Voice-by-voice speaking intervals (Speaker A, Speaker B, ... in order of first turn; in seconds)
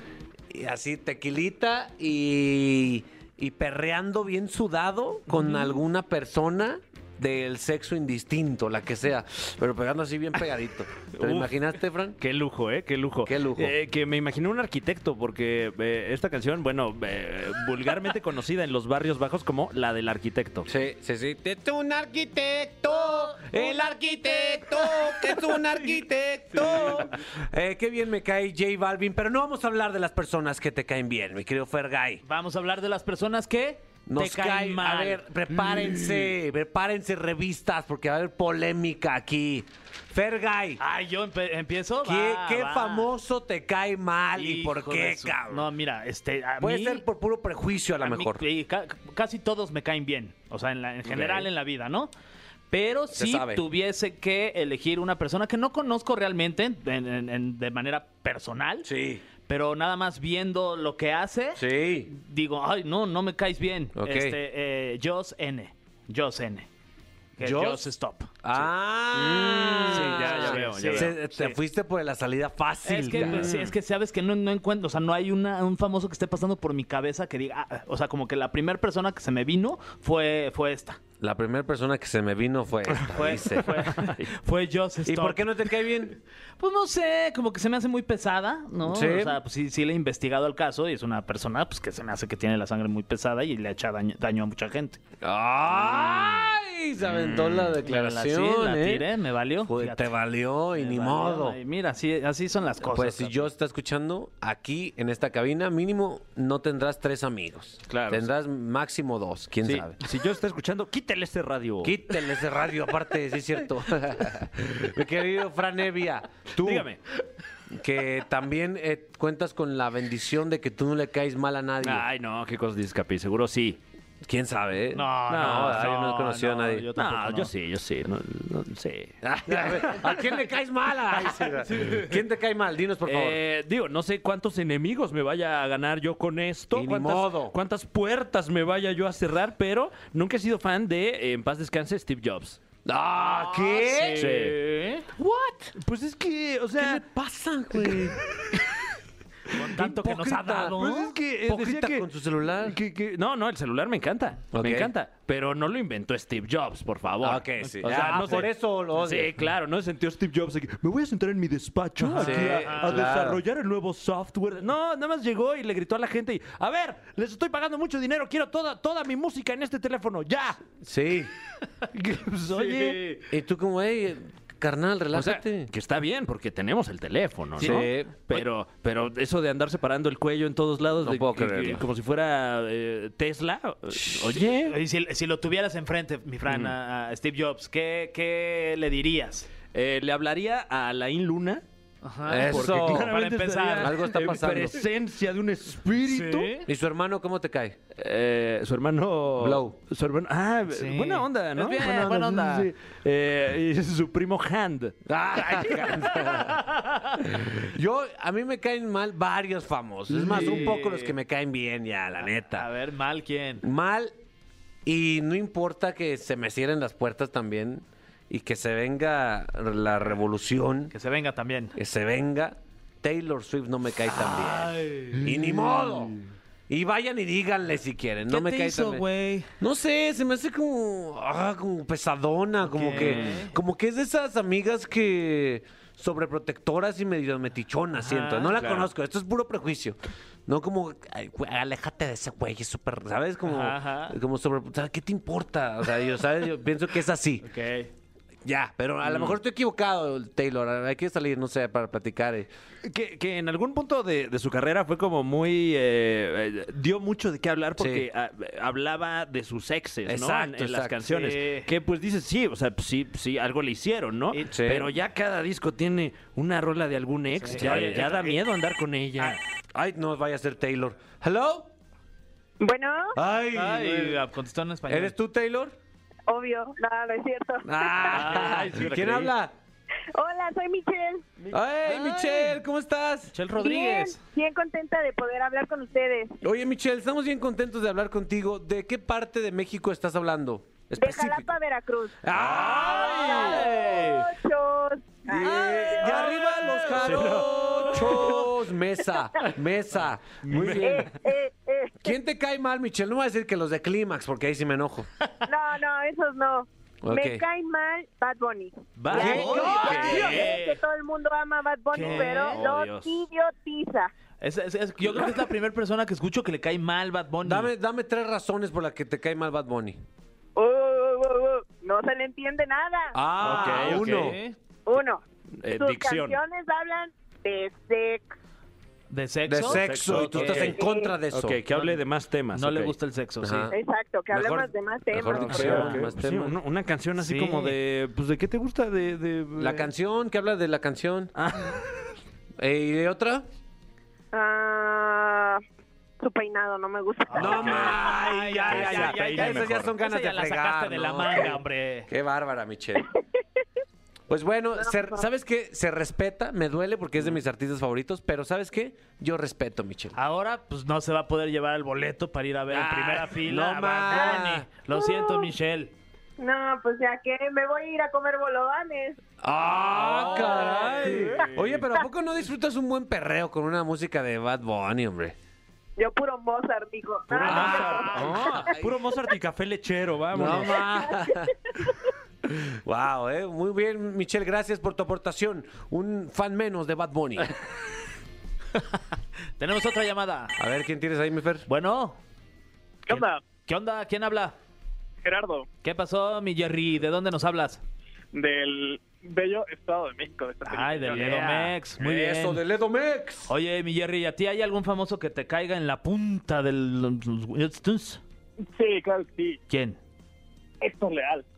Speaker A: 0.5-12.2, 13.3-13.7, 20.7-32.2, 34.1-40.8, 42.0-45.7, 46.6-48.4, 51.1-51.4, 53.1-53.7, 58.8-59.2, 61.6-62.1, 64.0-64.4, 67.4-67.9, 68.4-73.7, 81.2-83.9, 85.0-86.2, 88.8-89.4, 95.2-99.1, 99.6-101.6, 102.8-110.0, 111.8-116.9, 117.7-122.0, 124.2-126.9, 129.2-133.4, 136.7-137.6, 142.8-144.3, 145.1-145.7, 146.8-148.2, 149.6-152.8, 154.5-154.9, 157.2-159.3, 162.2-163.4, 170.8-171.3, 173.3-175.7, 177.6-178.1, 181.0-181.8, 183.9-184.5, 192.3-193.1, 193.8-194.8, 196.7-197.8, 199.4-199.8, 205.1-206.7, 207.2-212.7, 213.6-214.1, 214.8-220.9, 221.8-229.1, 229.6-247.5, 248.4-252.5, 257.8-258.1, 260.1-261.0, 264.5-264.9, 267.5-268.0, 269.7-271.7, 273.1-274.2, 274.9-275.8, 277.6-279.5, 281.5-283.3, 286.4-291.5, 292.2-293.7, 295.3-301.1, 302.0-305.1, 307.0-307.4, 309.1-310.2, 317.4-320.0, 323.1-324.4, 329.5-331.6, 333.4-333.8, 334.3-336.6, 339.6-341.3, 342.6-343.5, 347.4-353.1, 354.3-360.2, 362.7-364.7, 369.4-375.4, 377.3-379.0, 380.3-381.8, 382.4-387.5, 390.6-391.7, 401.1-403.5
Speaker B: 5.3-5.7, 26.6-27.0, 32.2-35.2, 40.8-43.1, 44.4-47.0, 48.0-52.1, 52.7-58.9, 59.5-66.7, 67.4-68.3, 69.9-71.5, 72.8-81.0, 83.1-85.5, 86.6-95.0, 97.8-100.1, 100.8-103.4, 124.9-127.5, 143.2-145.1, 149.5-151.1, 157.6-158.5, 162.0-163.1, 172.5-173.2, 177.6-177.9, 184.7-189.5, 192.0-194.0, 196.1-196.7, 200.7-202.7, 205.7-207.2, 210.1-211.2, 212.4-213.6, 220.9-221.8, 224.5-225.2, 228.3-229.5, 232.7-233.5, 238.0-238.6, 243.5-244.2, 247.4-247.9, 261.1-261.7, 267.4-268.4, 273.6-275.1, 278.1-279.3, 281.5-282.6, 283.3-284.2, 295.6-298.4, 309.1-310.8, 311.9-312.6, 314.4-317.7, 323.4-324.6, 329.1-330.7, 331.7-332.0, 332.5-333.7, 335.6-336.0, 337.2-337.8, 347.3-352.1, 360.2-365.9, 370.1-371.4, 389.6-390.6, 391.7-392.2, 393.1-394.6, 395.8-397.8, 400.7-402.6, 403.5-408.2, 409.7-410.0
Speaker C: 11.1-11.6, 12.2-20.7, 69.4-71.2, 73.1-73.5, 84.0-84.3, 107.9-108.3, 109.7-112.3, 116.6-117.0, 121.8-123.8, 125.3-125.9, 127.0-130.2, 133.1-142.6, 144.2-144.6, 145.8-147.0, 147.8-148.6, 150.8-152.1, 152.6-170.7, 171.9-173.0, 175.1-184.8, 186.5-186.8, 189.7-191.6, 192.5-196.5, 198.0-205.0, 232.9-233.5, 238.6-238.9, 249.0-249.4, 252.8-269.4, 278.1-279.3, 292.3-294.2, 296.0-298.4, 300.4-301.1, 309.0-310.5, 312.0-313.2, 323.4-324.4, 325.6-326.4, 329.6-330.8, 331.3-333.0, 335.3-339.9, 341.4-341.8, 348.7-349.9, 369.9-371.8, 377.4-380.9
Speaker D: 272.6-273.2, 276.3-278.2, 280.1-281.3, 283.6-286.4, 291.0-292.2, 292.8-296.0, 300.8-302.2, 305.4-314.1, 320.6-323.2, 324.9-328.4, 330.7-331.2, 333.7-335.9, 344.3-345.6, 346.2-348.1, 354.8-355.2, 364.1-364.4, 364.9-365.5, 366.4-369.2, 376.0-378.1
Speaker E: 393.1-393.4, 395.2-395.7, 398.3-401.5, 408.7-409.6, 410.8-411.5